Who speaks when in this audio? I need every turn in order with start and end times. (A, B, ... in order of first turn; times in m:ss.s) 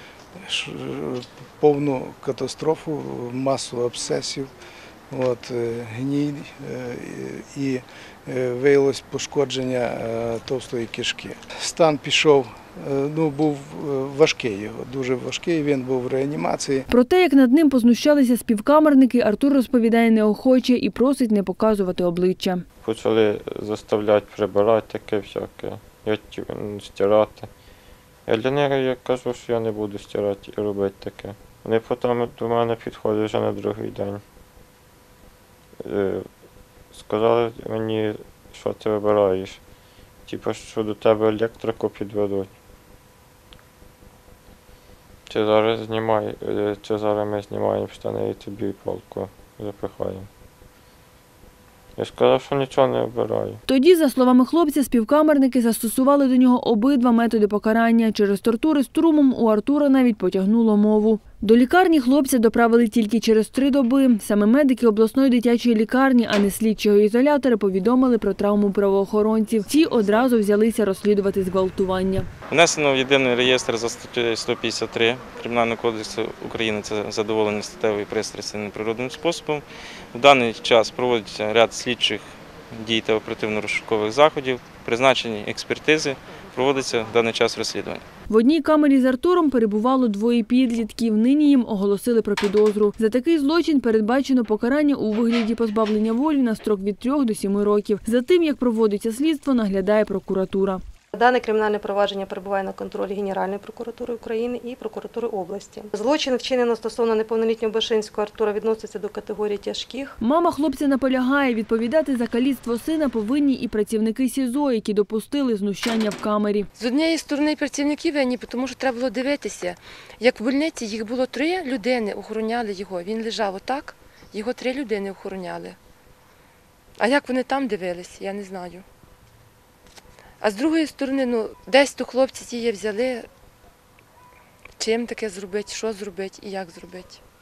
0:00.4-0:04.5 A
0:05.1-0:16.8 A
0:16.9-0:22.6 B
0:22.8-0:27.5 C
0:28.3-0:34.2 C
0:35.8-0:36.2 C
0:36.9-0:39.6 C
0:40.3-0:42.5 C
0:45.3-0:50.3 C
0:52.0-0:53.6 C
0:53.7-1:12.3 B
1:12.5-1:28.0 D
1:28.3-1:40.8 B
1:41.2-1:50.1 E
1:50.2-1:56.7 B
1:56.8-2:05.8 F
2:07.0-2:08.8 F
2:10.4-2:13.3 F
2:14.8-2:17.2 F